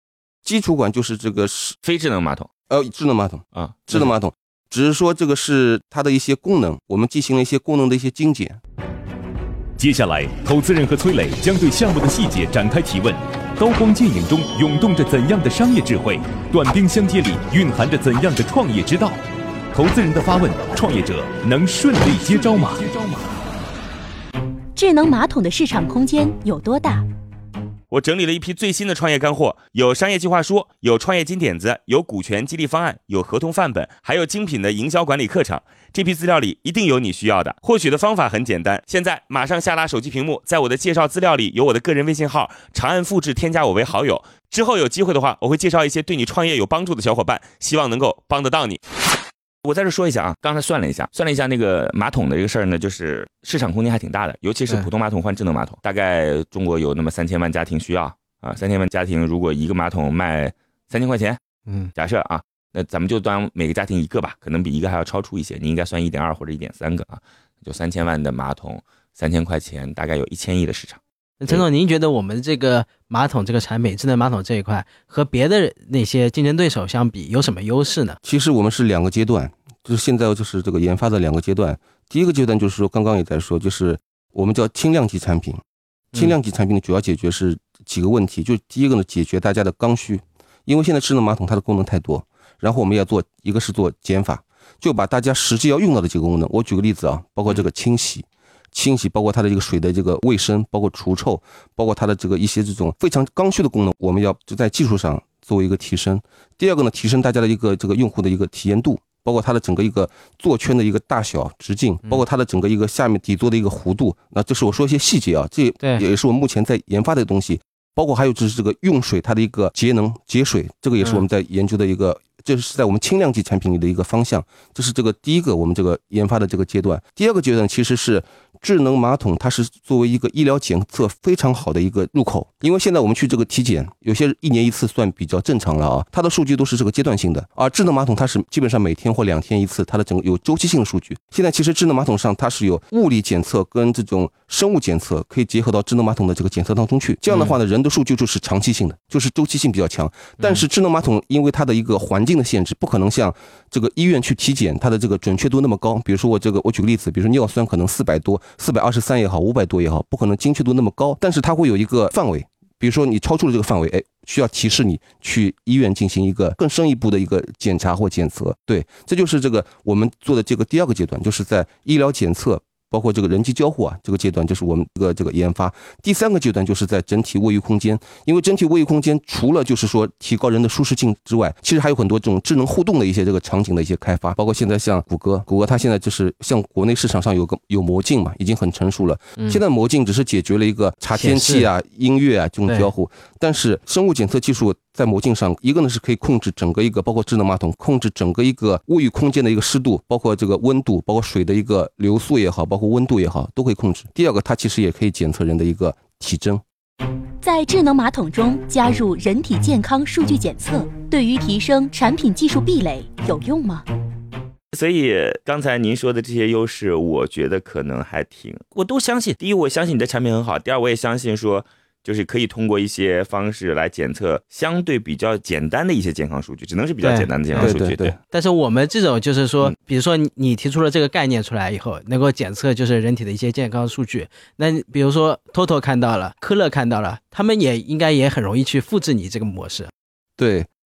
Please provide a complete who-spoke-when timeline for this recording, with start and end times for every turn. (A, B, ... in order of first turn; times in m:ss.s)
0:00.4-0:01.8 A
0:01.8-0:02.5 B
0:02.7-0:08.6 A
0:03.5-0:04.1 B
0:09.8-0:19.2 C
0:19.7-0:23.1 C
0:24.7-0:27.0 D
0:27.9-0:48.8 B
0:49.6-1:01.4 B
1:01.7-1:01.9 E
1:02.0-1:11.6 B
1:11.4-1:18.2 E
1:18.2-1:25.6 A
1:26.1-3:26.6 A
2:01.0-2:01.2 E
2:27.3-2:27.6 E
2:30.4-2:30.6 E
3:09.4-3:09.6 E
3:11.1-3:11.7 E
3:12.7-3:12.9 E
3:27.4-3:33.8 D
3:34.7-3:48.2 B
3:47.0-3:59.9 E
3:47.5-3:48.2 A
4:00.4-4:00.7 A